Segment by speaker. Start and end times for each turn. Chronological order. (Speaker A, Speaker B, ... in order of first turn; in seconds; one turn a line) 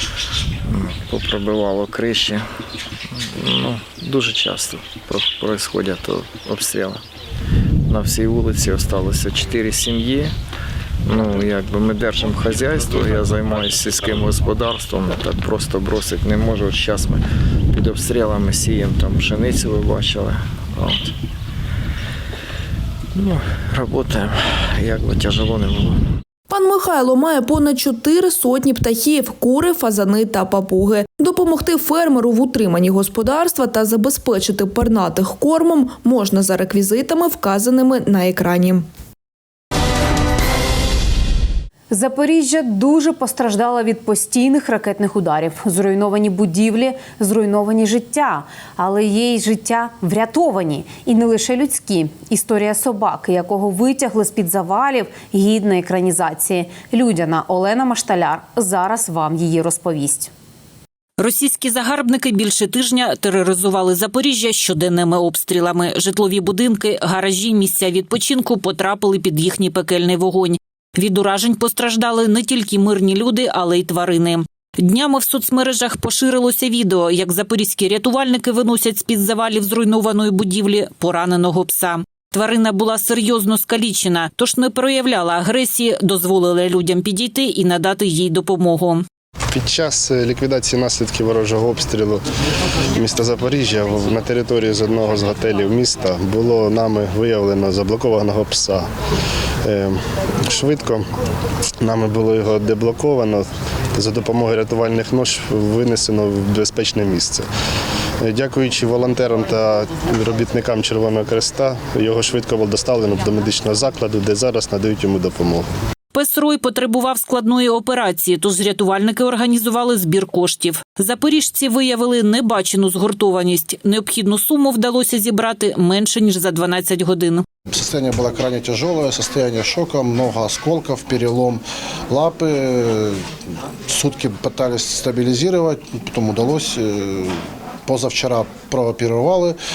Speaker A: 0.7-2.5
Speaker A: 3.1-7.0
Speaker A: 7.9-10.3
Speaker A: 11.0-21.1
Speaker A: 23.1-26.1
Speaker B: 26.5-38.9
Speaker C: 41.9-60.3
Speaker D: 61.2-89.0
Speaker E: 89.5-92.2
Speaker E: 93.0-98.9
Speaker E: 99.6-101.0
Speaker E: 101.8-107.5
Speaker E: 108.2-115.7
Speaker D: 116.1-127.4
Speaker F: 127.7-133.2
Speaker F: 133.9-139.6